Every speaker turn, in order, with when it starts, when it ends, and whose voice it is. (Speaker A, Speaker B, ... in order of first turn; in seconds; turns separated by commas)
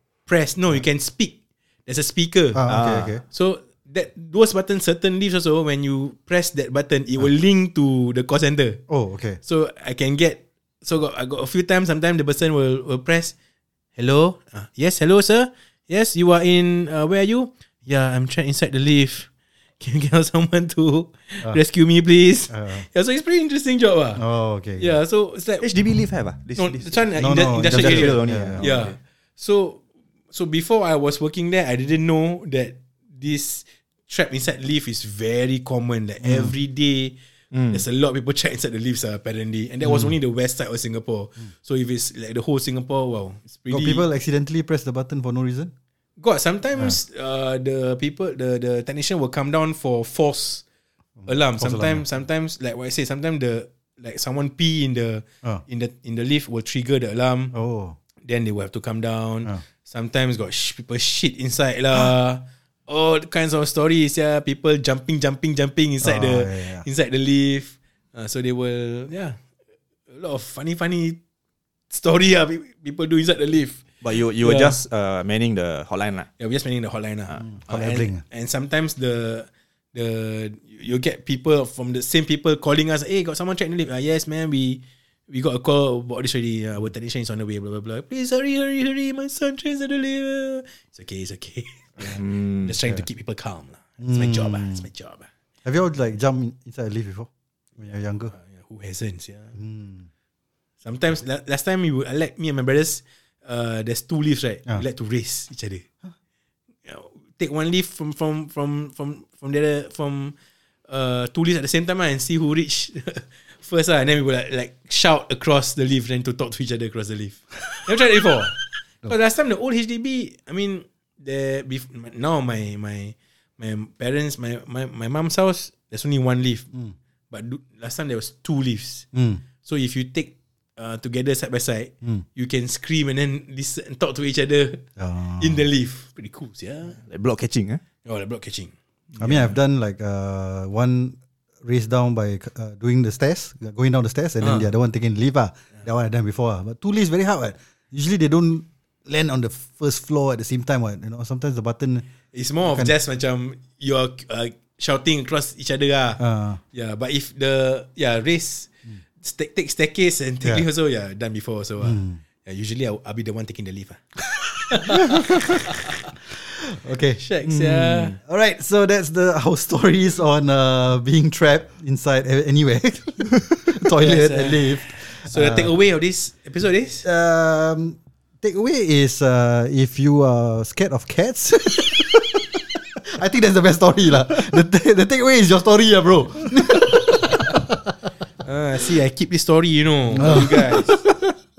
Speaker A: 0.2-2.6, Speaker B: 2.5-3.2, Speaker C: 2.6-3.1, Speaker A: 3.2-8.8, Speaker B: 8.9-9.4, Speaker A: 9.4-13.3, Speaker A: 13.9-19.3, Speaker A: 19.8-24.2, Speaker B: 22.5-22.9, Speaker B: 24.2-24.9, Speaker A: 24.8-25.7, Speaker C: 25.6-27.1, Speaker A: 26.6-29.8, Speaker B: 27.2-28.6, Speaker C: 27.7-28.9, Speaker A: 30.3-37.1, Speaker B: 36.2-36.5, Speaker C: 37.5-37.8, Speaker A: 37.7-44.0, Speaker B: 39.8-40.1, Speaker B: 43.7-45.7, Speaker A: 46.2-50.6, Speaker B: 51.2-52.0, Speaker A: 51.2-57.5, Speaker B: 57.5-58.0, Speaker A: 58.2-69.4, Speaker B: 66.0-66.8, Speaker A: 70.1-71.2, Speaker A: 71.9-73.8, Speaker C: 74.0-76.3, Speaker A: 74.4-74.8, Speaker A: 76.4-95.3, Speaker B: 77.4-78.2, Speaker C: 92.0-92.7, Speaker B: 94.0-94.8, Speaker B: 95.6-98.3, Speaker A: 98.3-99.6, Speaker B: 99.5-100.1, Speaker A: 100.8-105.8, Speaker A: 106.8-110.3, Speaker A: 110.9-126.7, Speaker A: 127.3-129.1, Speaker B: 129.1-129.4, Speaker A: 129.6-134.8, Speaker B: 135.0-135.6, Speaker A: 135.4-137.0, Speaker C: 137.0-137.8, Speaker A: 138.0-139.5, Speaker B: 139.2-152.0, Speaker A: 144.4-144.7, Speaker A: 152.3-156.2, Speaker B: 156.2-156.6, Speaker A: 156.7-164.0, Speaker B: 161.8-162.2, Speaker A: 164.6-166.1, Speaker B: 164.7-165.4, Speaker B: 166.3-175.7, Speaker A: 167.2-168.2, Speaker A: 174.0-177.1, Speaker B: 177.0-187.9, Speaker A: 188.4-190.9, Speaker B: 190.1-191.4